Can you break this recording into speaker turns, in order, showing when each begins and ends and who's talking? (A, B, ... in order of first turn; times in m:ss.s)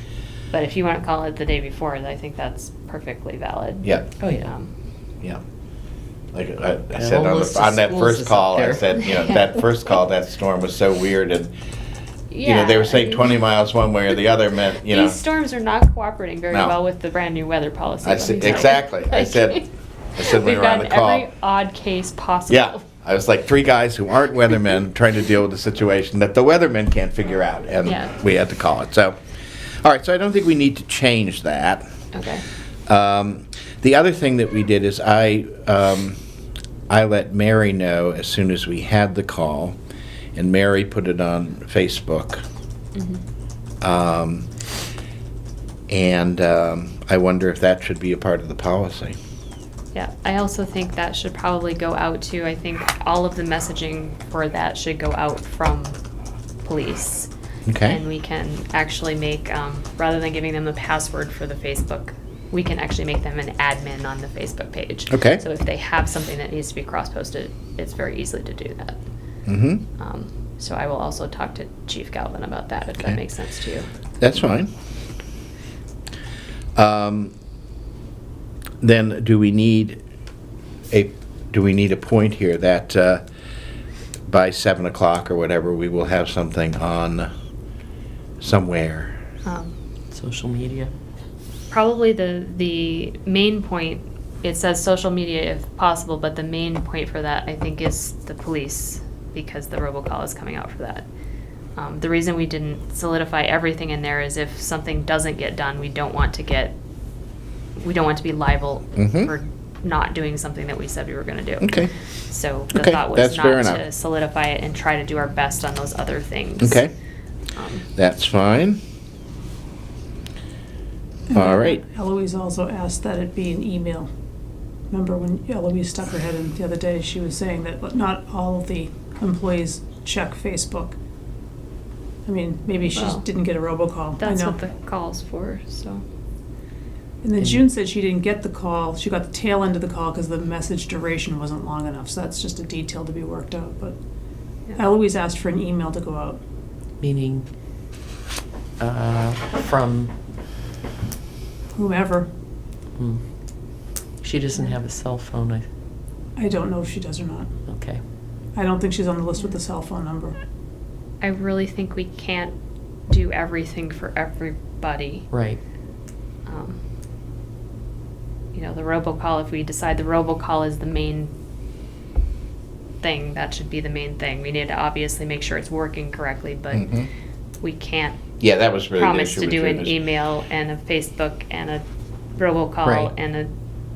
0:00.5-0:04.7 A
0:04.2-0:04.5 B
0:06.3-0:11.5 C
0:07.0-0:09.0 B
0:12.3-0:13.4 A
0:12.4-0:15.2 C
0:14.8-0:19.7 A
0:18.0-0:19.6 C
0:20.2-0:21.3 C
0:20.2-0:22.8 A
0:22.5-0:29.2 C
0:27.8-0:28.2 A
0:29.8-0:31.8 C
0:32.1-0:32.4 A
0:32.9-0:36.2 C
0:36.9-0:39.8 C
0:40.4-0:42.4 C
0:43.0-0:43.2 A
0:43.8-0:44.5 C
0:45.9-0:49.2 C
0:49.9-0:56.0 A
0:56.6-0:57.3 A
0:57.7-0:58.0 C
0:57.8-1:09.0 A
1:05.1-1:05.4 C
1:09.5-1:09.8 C
1:10.0-1:13.9 A
1:14.2-1:14.7 C
1:16.8-1:17.3 C
1:18.8-1:20.0 C
1:20.9-1:23.2 C
1:24.3-1:27.3 C
1:28.4-1:29.2 C
1:29.4-1:29.7 A
1:30.1-1:30.9 B
1:31.7-1:41.1 A
1:41.8-1:46.8 A
1:47.8-1:56.8 A
1:49.0-1:49.3 C
1:51.6-1:51.9 C
1:52.7-1:53.8 C
1:56.6-1:56.9 C
1:57.6-1:57.9 A
1:58.0-1:58.8 C
2:01.3-2:04.1 D
2:01.3-2:01.8 C
2:04.9-2:11.0 D
2:12.2-2:14.6 D
2:12.9-2:13.2 A
2:14.2-2:16.0 A
2:17.2-2:24.0 D
2:17.4-2:17.6 B
2:24.8-2:26.4 D
2:27.0-2:27.5 B
2:28.8-2:30.1 B
2:31.7-2:32.3 D
2:33.0-2:33.2 B
2:34.2-2:35.7 B
2:36.4-2:37.5 D
2:37.7-2:38.0 B
2:38.6-2:40.4 D
2:41.2-2:42.6 A
2:43.1-2:45.3 A
2:45.3-2:45.6 B
2:46.5-2:46.8 A
2:48.5-2:51.3 A
2:53.0-2:56.9 A
2:56.7-2:57.1 C
2:57.6-2:58.2 A
2:58.4-3:00.0 C
2:59.0-3:01.8 A
3:02.4-3:03.5 A
3:02.8-3:03.1 B